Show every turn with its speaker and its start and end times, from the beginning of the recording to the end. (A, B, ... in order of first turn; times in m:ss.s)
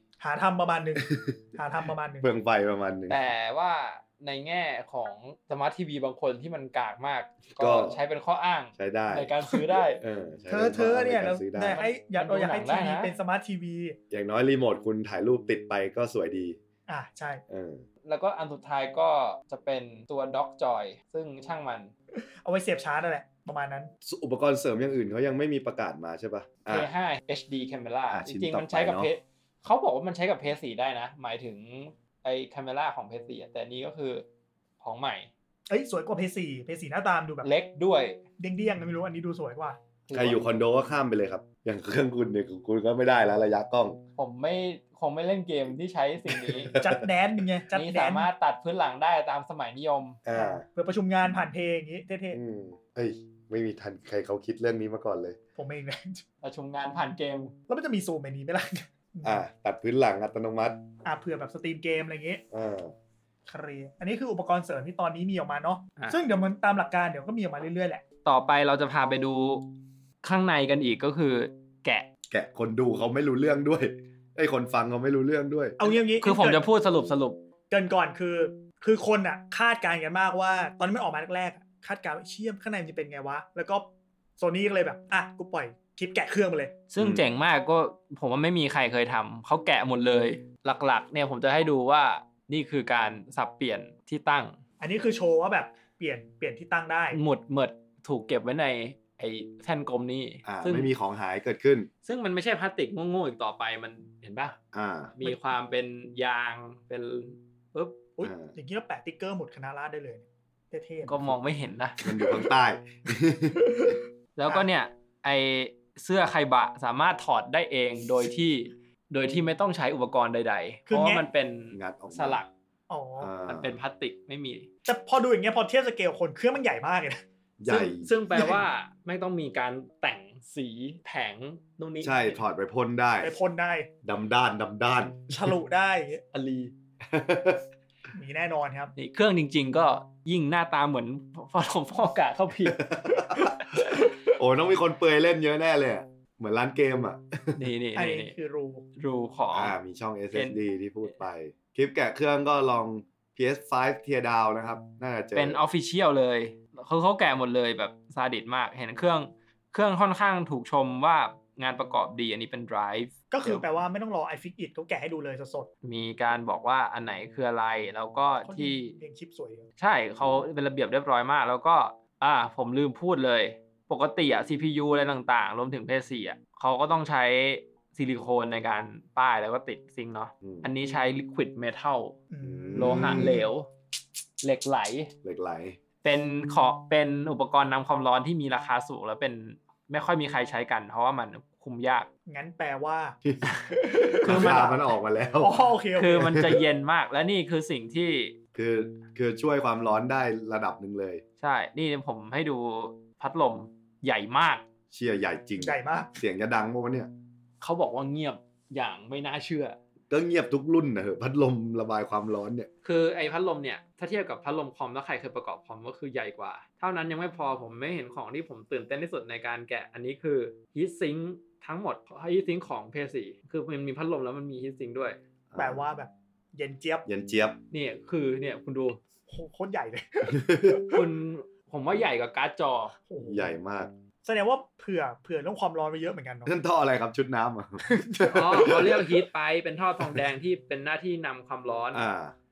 0:00.2-0:02.3 A
0:01.0-0:01.4 B
0:02.2-0:03.2 B
0:03.1-0:10.0 C
0:07.6-0:08.0 B
0:08.8-0:09.4 B
0:10.0-0:11.9 B
0:10.5-0:14.0 A
0:11.8-0:13.1 C
0:14.1-0:16.6 B
0:16.9-0:17.4 A
0:17.5-0:17.8 B
0:18.0-0:21.9 C
0:22.2-0:23.9 A
0:24.0-0:26.9 B
0:26.7-0:34.2 C
0:28.1-0:29.1 B
0:34.8-0:35.3 C
0:35.7-0:37.5 A
0:37.4-0:38.2 C
0:38.4-0:39.8 A
0:40.1-0:40.5 C
0:40.1-0:44.0 B
0:44.2-0:46.8 C
0:46.3-0:47.1 B
0:46.8-0:48.3 A
0:47.7-0:50.2 C
0:50.2-0:50.6 B
0:50.3-0:52.4 A
0:52.3-0:55.4 B
0:55.6-0:56.2 A
0:56.4-0:57.6 C
0:57.7-0:59.4 A
0:59.2-1:00.8 B
1:01.0-1:02.4 A
1:02.5-1:02.9 B
1:03.5-1:08.0 A
1:08.2-1:09.7 C
1:10.2-1:12.1 C
1:12.3-1:15.8 B
1:15.8-1:16.6 A
1:16.2-1:17.4 C
1:17.7-1:23.9 A
1:24.4-1:26.7 A
1:26.9-1:34.6 C
1:27.0-1:27.3 B
1:34.8-1:37.2 A
1:37.1-1:40.9 C
1:40.4-1:41.9 B
1:42.0-1:44.6 C
1:44.7-1:45.2 B
1:45.2-1:48.0 C
1:48.2-1:51.3 A
1:48.2-1:48.5 B
1:51.0-1:52.0 C
1:52.0-1:54.0 B
1:52.1-1:52.5 A
1:53.6-1:54.7 A
1:54.4-2:02.5 C
2:00.9-2:01.2 A
2:01.7-2:02.4 B
2:02.9-2:03.3 A
2:03.2-2:03.8 B
2:03.5-2:04.7 C
2:04.8-2:07.2 A
2:07.6-2:08.1 B
2:07.7-2:12.4 C
2:08.3-2:08.6 A
2:12.0-2:13.4 B
2:13.2-2:13.9 A
2:14.0-2:15.6 B
2:15.3-2:16.2 A
2:16.3-2:16.7 C
2:17.0-2:17.6 B
2:18.1-2:18.9 A
2:19.0-2:24.1 C
2:22.7-2:27.6 B
2:27.6-2:28.3 C
2:28.0-2:28.9 A
2:29.0-2:29.8 C
2:29.5-2:35.6 B
2:30.3-2:30.6 C
2:35.4-2:43.6 C
2:43.3-2:45.7 A
2:45.8-2:49.0 C
2:48.4-2:49.7 A
2:49.8-3:02.2 C
3:00.4-3:00.7 B
3:02.3-3:03.4 A
3:02.4-3:03.4 B
3:02.8-3:03.7 C
3:04.4-3:05.1 C
3:05.2-3:05.8 B
3:06.0-3:12.1 C
3:12.3-3:13.2 A
3:13.2-3:15.7 B
3:13.5-3:13.7 C
3:13.7-3:14.8 A
3:14.2-3:14.7 C
3:15.4-3:16.6 A
3:16.0-3:18.4 C
3:16.2-3:16.6 B
3:18.5-3:21.2 B
3:21.4-3:24.6 C
3:24.9-3:27.1 B
3:25.6-3:26.1 A
3:27.6-3:29.8 C
3:30.1-3:32.7 B
3:32.8-3:45.2 C
3:45.5-3:45.9 B
3:45.6-3:47.1 A
3:47.1-3:47.6 B
3:47.7-3:49.0 C
3:49.3-3:51.0 A
3:50.3-3:50.8 B
3:50.9-3:53.0 C
3:53.1-3:53.5 A
3:53.2-3:53.9 B
3:54.2-3:56.5 A
3:56.4-3:59.1 B
3:57.8-3:59.0 A
3:58.3-4:02.1 C
4:01.9-4:02.4 B